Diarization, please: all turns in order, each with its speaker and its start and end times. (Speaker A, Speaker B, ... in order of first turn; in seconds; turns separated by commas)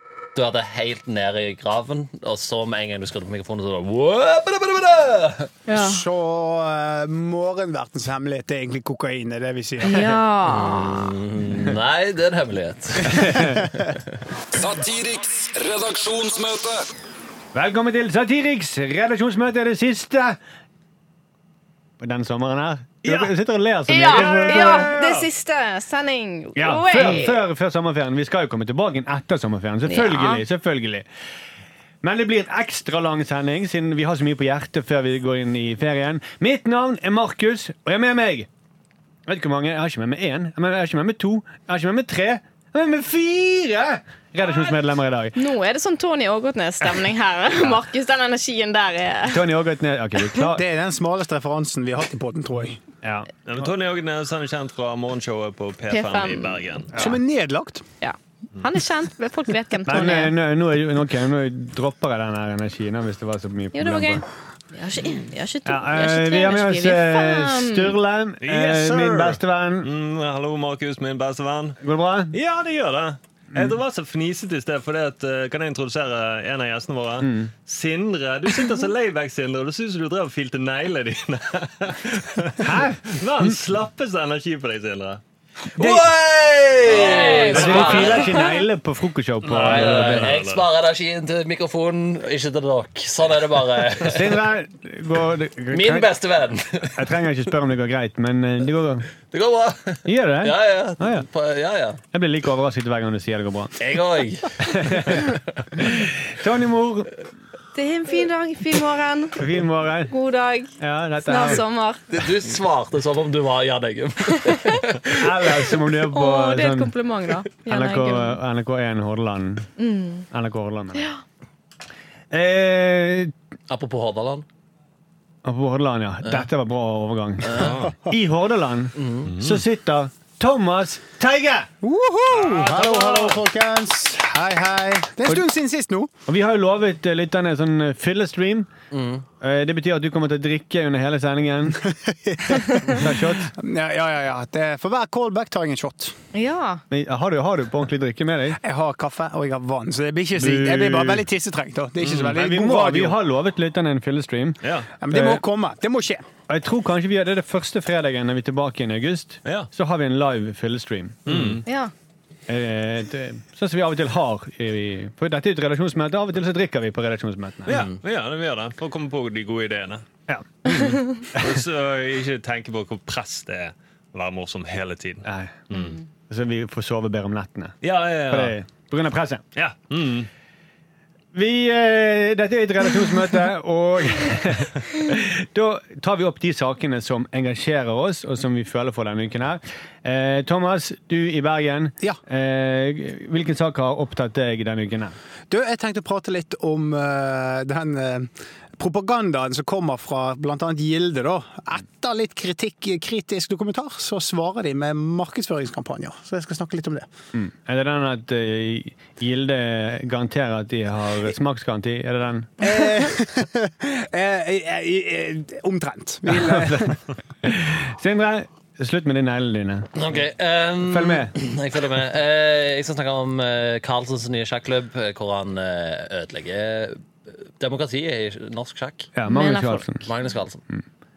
Speaker A: 0.3-5.5, Speaker B: 5.7-6.0, Speaker C: 5.7-10.1, Speaker B: 9.8-11.1, Speaker A: 10.4-14.0, Speaker D: 13.0-13.7, Speaker E: 14.5-16.8, Speaker D: 17.5-20.4, Speaker D: 22.0-25.0, Speaker F: 23.0-23.3, Speaker B: 23.9-27.4, Speaker F: 24.1-25.3, Speaker D: 26.6-31.1, Speaker F: 27.0-27.2, Speaker B: 29.8-30.4, Speaker D: 32.0-38.5, Speaker D: 39.3-45.4, Speaker B: 45.4-49.5, Speaker D: 49.3-50.6, Speaker C: 50.5-52.8, Speaker D: 53.0-53.3, Speaker F: 53.5-56.9, Speaker B: 55.9-56.9, Speaker D: 56.9-57.2, Speaker C: 57.0-57.8, Speaker B: 58.0-60.3, Speaker D: 59.9-64.2, Speaker B: 63.7-68.0, Speaker D: 65.7-69.9, Speaker F: 68.4-71.8, Speaker D: 71.8-72.3, Speaker F: 72.3-85.2, Speaker D: 77.2-77.5, Speaker D: 82.6-83.6, Speaker A: 85.8-88.3, Speaker B: 86.9-88.6, Speaker F: 86.9-88.2, Speaker D: 87.5-90.4, Speaker F: 89.4-90.7, Speaker A: 89.5-94.4, Speaker D: 94.0-96.1, Speaker A: 95.7-97.1, Speaker D: 97.0-99.1, Speaker A: 99.3-102.0, Speaker D: 100.0-101.3, Speaker D: 102.1-103.8, Speaker A: 103.8-105.6, Speaker D: 104.6-107.1, Speaker B: 107.7-109.5, Speaker D: 109.4-110.1, Speaker B: 110.1-112.1, Speaker D: 110.8-111.6, Speaker A: 112.1-115.7, Speaker B: 114.3-114.8, Speaker D: 115.1-116.9, Speaker B: 116.1-118.4, Speaker D: 117.7-119.7, Speaker B: 119.8-120.3, Speaker D: 120.3-121.1, Speaker B: 121.0-121.2, Speaker D: 122.3-123.3, Speaker A: 123.7-124.5, Speaker D: 125.4-131.7, Speaker A: 127.5-127.8, Speaker F: 127.6-127.9, Speaker A: 128.9-129.3, Speaker F: 129.3-129.6, Speaker C: 131.8-136.1, Speaker F: 132.3-133.4, Speaker D: 136.3-138.7, Speaker A: 138.9-139.2, Speaker D: 139.4-141.8, Speaker C: 142.1-146.2, Speaker D: 142.9-143.5, Speaker B: 146.3-146.8, Speaker D: 146.9-148.6, Speaker C: 148.6-153.2, Speaker D: 150.3-151.3, Speaker F: 152.0-152.4, Speaker D: 152.3-154.6, Speaker F: 154.6-154.9, Speaker C: 155.0-156.2, Speaker D: 155.1-155.4, Speaker D: 156.5-161.6, Speaker F: 161.3-161.6, Speaker B: 161.7-161.9, Speaker D: 162.5-167.8, Speaker F: 167.7-170.1, Speaker D: 170.3-171.5, Speaker F: 171.3-176.0, Speaker D: 175.2-175.7, Speaker D: 176.3-179.4, Speaker F: 177.8-178.6, Speaker F: 179.6-180.3, Speaker D: 181.3-195.2, Speaker C: 195.5-207.1, Speaker D: 207.3-212.6, Speaker C: 212.6-217.0, Speaker D: 216.3-216.9, Speaker D: 217.4-219.9, Speaker A: 219.9-229.1, Speaker D: 220.8-221.3, Speaker D: 229.1-230.1, Speaker B: 229.3-229.9, Speaker A: 230.0-230.6